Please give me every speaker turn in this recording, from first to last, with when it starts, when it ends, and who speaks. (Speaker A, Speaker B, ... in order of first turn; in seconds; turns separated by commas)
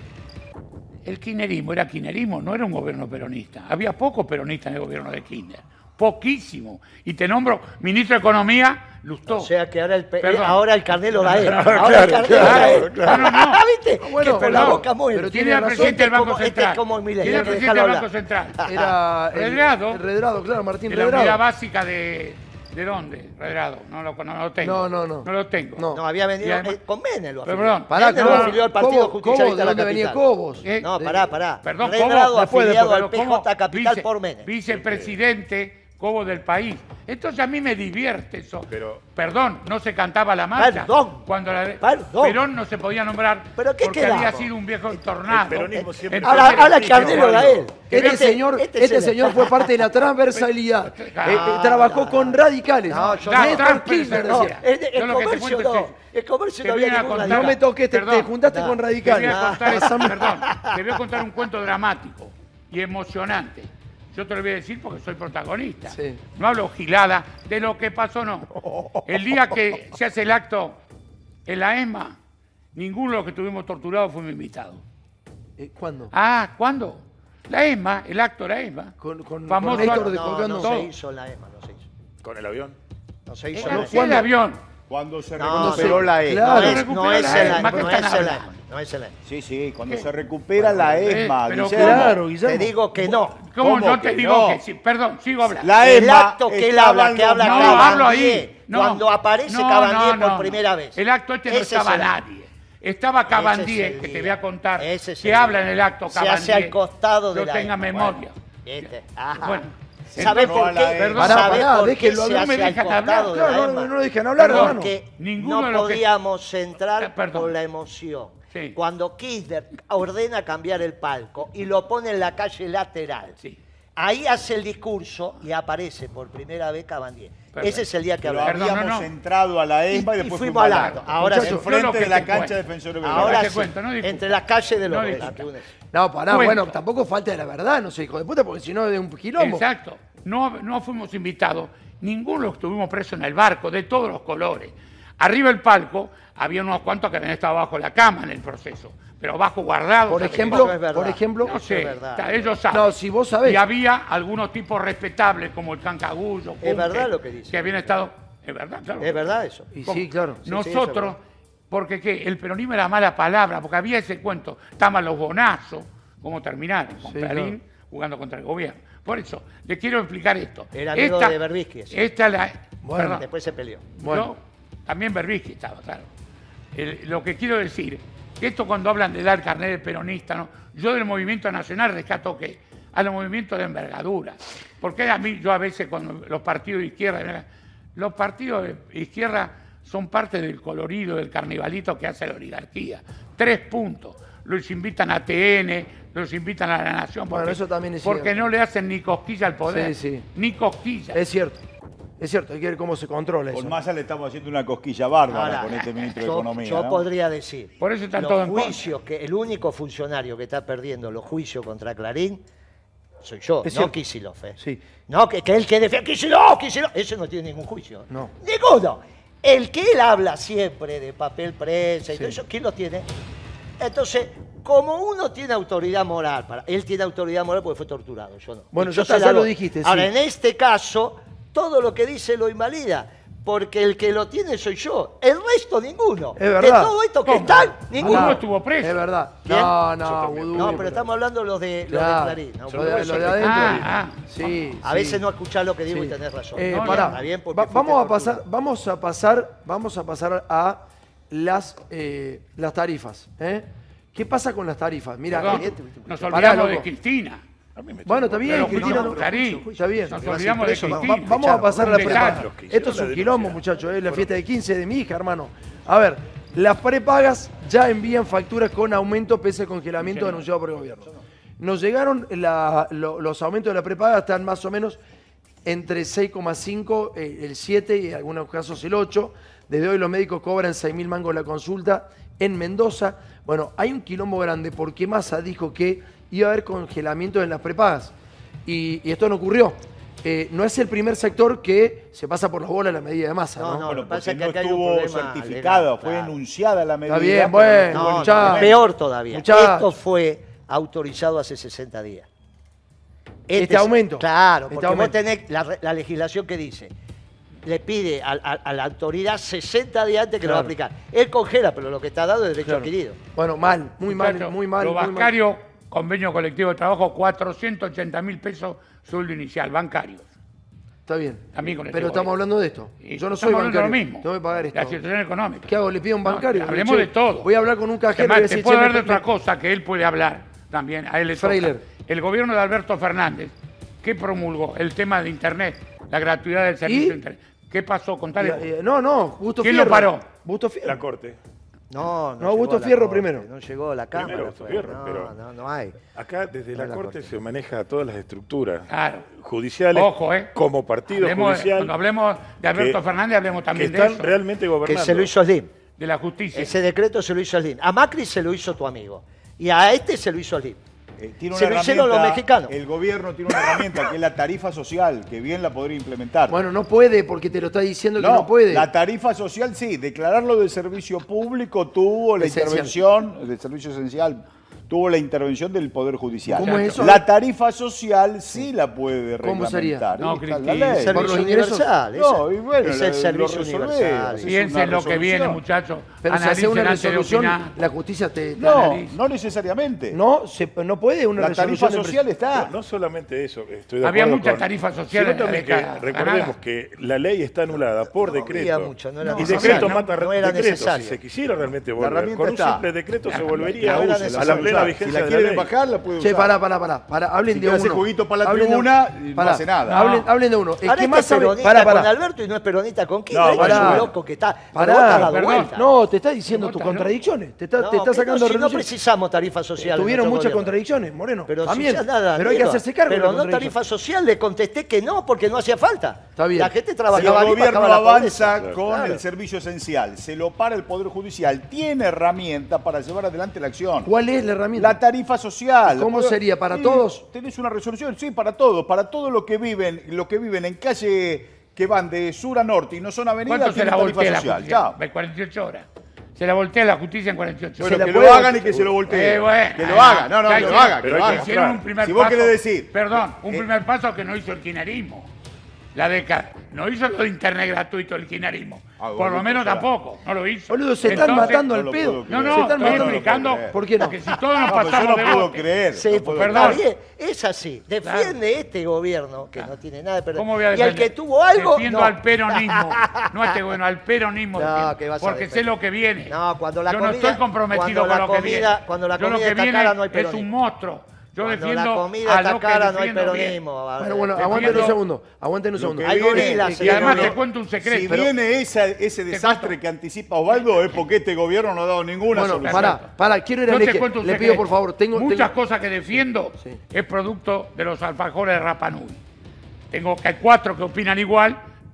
Speaker A: 1.0-9.5, Speaker B: 9.3-18.9, Speaker A: 10.2-10.6, Speaker A: 11.2-13.6, Speaker C: 11.3-13.2, Speaker D: 14.0-16.0, Speaker A: 14.2-18.6, Speaker D: 17.3-17.5, Speaker D: 18.6-21.4, Speaker A: 19.3-20.0, Speaker A: 20.9-25.8, Speaker D: 24.6-26.0, Speaker B: 25.9-30.2, Speaker A: 26.4-26.8, Speaker A: 27.4-28.6, Speaker D: 27.9-31.2, Speaker A: 30.6-30.9, Speaker B: 30.8-34.5, Speaker A: 31.6-48.2, Speaker D: 32.3-32.9, Speaker C: 34.7-35.1, Speaker C: 38.7-39.0, Speaker B: 40.5-41.3, Speaker B: 41.8-42.4, Speaker B: 43.6-45.0, Speaker C: 45.3-47.7, Speaker B: 45.7-49.7, Speaker D: 47.9-54.6, Speaker A: 50.3-51.6, Speaker B: 51.2-57.6, Speaker A: 53.2-55.9, Speaker A: 56.6-58.3, Speaker D: 57.2-60.2, Speaker B: 58.5-60.9, Speaker A: 59.0-68.5, Speaker D: 65.9-66.2, Speaker D: 68.7-69.0, Speaker A: 69.0-70.8, Speaker A: 71.5-72.2, Speaker A: 72.7-74.8, Speaker D: 75.6-76.1, Speaker A: 76.1-78.9, Speaker D: 79.0-80.7, Speaker A: 79.5-80.9, Speaker B: 79.6-81.8, Speaker C: 82.2-82.8, Speaker B: 83.2-84.0, Speaker A: 83.5-84.6, Speaker D: 83.6-84.3, Speaker E: 84.9-86.8, Speaker B: 85.4-89.2, Speaker D: 85.5-88.0, Speaker A: 86.5-88.5, Speaker E: 89.2-92.2, Speaker B: 90.6-91.1, Speaker A: 91.0-92.1, Speaker D: 91.8-92.7, Speaker B: 92.4-93.3, Speaker A: 93.0-95.8, Speaker E: 93.6-94.6, Speaker E: 95.6-98.1, Speaker B: 95.8-102.1, Speaker A: 97.4-106.8, Speaker B: 103.3-123.3, Speaker A: 107.3-111.6, Speaker E: 110.2-111.5, Speaker D: 111.2-114.9, Speaker A: 112.2-113.4, Speaker A: 114.4-116.0, Speaker A: 117.0-117.5, Speaker B: 124.0-128.7, Speaker A: 127.5-127.9, Speaker E: 128.2-133.7, Speaker A: 128.4-129.1, Speaker B: 129.9-131.6, Speaker A: 131.1-134.2, Speaker D: 131.2-131.6, Speaker B: 133.0-135.7, Speaker A: 134.8-135.5, Speaker D: 135.9-139.6, Speaker A: 136.3-136.8, Speaker A: 139.4-150.7, Speaker D: 150.1-151.5, Speaker B: 150.1-152.5, Speaker A: 151.4-171.4, Speaker D: 152.7-153.6, Speaker B: 156.6-157.9, Speaker B: 159.0-159.8, Speaker D: 159.7-160.4, Speaker B: 160.4-161.2, Speaker D: 167.1-167.6, Speaker B: 170.7-172.0, Speaker A: 171.9-173.2, Speaker D: 172.8-173.2, Speaker B: 173.0-173.9, Speaker A: 174.0-176.1, Speaker D: 174.0-174.3, Speaker A: 176.7-201.2, Speaker D: 197.3-198.4, Speaker D: 199.7-200.3, Speaker D: 201.1-201.6, Speaker D: 202.2-203.8, Speaker E: 203.5-207.0, Speaker B: 205.3-212.4, Speaker A: 207.8-208.9, Speaker B: 213.2-223.1, Speaker D: 213.6-213.9, Speaker D: 214.6-214.8, Speaker D: 222.1-222.4, Speaker B: 223.8-238.4, Speaker D: 228.7-230.1, Speaker D: 236.3-236.9, Speaker A: 237.2-239.0, Speaker D: 238.0-241.1, Speaker B: 239.5-239.8, Speaker C: 240.0-240.8, Speaker B: 240.5-243.8, Speaker D: 241.9-245.2, Speaker C: 242.7-243.8, Speaker A: 243.4-244.3, Speaker B: 244.8-248.4, Speaker D: 245.9-256.9, Speaker A: 246.7-247.2, Speaker A: 255.3-257.4, Speaker B: 255.4-255.8, Speaker C: 257.8-259.1, Speaker D: 258.1-271.1, Speaker A: 258.5-262.4, Speaker B: 258.5-261.8, Speaker C: 260.2-260.5, Speaker C: 261.8-264.3, Speaker D: 271.6-275.0, Speaker D: 275.6-288.1, Speaker D: 288.6-293.9, Speaker B: 293.6-296.4, Speaker E: 293.9-298.8, Speaker D: 297.1-298.7, Speaker B: 297.9-302.3, Speaker D: 299.3-299.9, Speaker B: 303.5-306.9, Speaker D: 303.5-305.1, Speaker B: 307.6-313.2, Speaker D: 310.4-310.7, Speaker D: 312.6-315.3, Speaker A: 314.1-320.2, Speaker D: 321.1-325.0, Speaker A: 321.5-322.3, Speaker A: 323.0-327.5, Speaker D: 325.6-329.2, Speaker A: 328.1-338.6, Speaker D: 331.3-331.8, Speaker D: 336.9-337.2, Speaker D: 338.4-341.0, Speaker A: 339.6-340.2, Speaker C: 340.8-341.4, Speaker B: 341.9-346.0, Speaker D: 342.4-343.4, Speaker C: 344.1-345.3, Speaker C: 346.1-351.9, Speaker B: 346.7-347.4, Speaker A: 348.9-349.2, Speaker A: 349.9-350.5, Speaker A: 351.1-354.3, Speaker C: 352.7-353.0, Speaker C: 353.7-355.3, Speaker B: 354.8-355.7, Speaker A: 356.0-356.8, Speaker B: 356.5-360.8, Speaker E: 361.2-366.6, Speaker B: 361.5-362.7, Speaker B: 363.6-363.9, Speaker D: 366.5-368.9, Speaker E: 368.2-381.3, Speaker D: 372.4-372.9, Speaker D: 376.5-377.2, Speaker A: 376.6-377.0, Speaker D: 379.4-380.0, Speaker A: 380.1-381.4, Speaker B: 380.9-384.5, Speaker D: 381.0-381.9, Speaker E: 382.1-385.6, Speaker A: 384.4-387.8, Speaker D: 386.2-389.0, Speaker E: 388.6-390.2, Speaker A: 388.6-389.2, Speaker D: 390.1-392.2, Speaker E: 391.4-392.7, Speaker C: 392.5-405.7, Speaker A: 394.0-396.5, Speaker B: 397.7-401.2, Speaker E: 399.3-399.7, Speaker A: 399.4-400.1, Speaker E: 402.0-402.9, Speaker A: 403.3-403.6, Speaker E: 403.6-406.5, Speaker B: 403.7-404.9, Speaker D: 404.4-404.6, Speaker D: 406.2-412.1, Speaker E: 407.5-410.1, Speaker A: 409.9-410.2, Speaker B: 410.8-415.9, Speaker E: 413.3-414.1, Speaker D: 413.6-414.1, Speaker D: 414.7-418.9, Speaker A: 415.1-415.7, Speaker A: 416.5-417.1, Speaker B: 417.8-420.7, Speaker D: 419.8-423.7, Speaker B: 421.5-429.2, Speaker D: 426.4-427.4, Speaker E: 427.1-434.1, Speaker D: 434.0-435.0, Speaker E: 434.7-445.0, Speaker D: 435.9-437.2, Speaker A: 443.4-448.4, Speaker E: 447.8-453.7, Speaker D: 447.8-448.9, Speaker A: 449.1-455.3, Speaker C: 450.6-451.8, Speaker A: 455.9-461.6, Speaker E: 459.0-459.9, Speaker D: 460.7-464.1, Speaker E: 461.0-463.8, Speaker A: 462.3-465.7, Speaker B: 464.4-464.6, Speaker E: 464.7-466.8, Speaker B: 465.9-473.6, Speaker A: 466.3-466.8, Speaker A: 468.0-468.4, Speaker A: 470.4-483.6, Speaker B: 474.5-480.5, Speaker B: 481.4-485.0, Speaker D: 484.0-487.3, Speaker A: 484.4-485.0, Speaker E: 485.8-493.1, Speaker B: 486.0-487.4, Speaker A: 486.8-488.2, Speaker A: 489.3-489.7, Speaker A: 490.5-491.0, Speaker D: 492.3-495.5, Speaker A: 492.6-493.1, Speaker A: 493.7-499.2, Speaker A: 499.9-501.6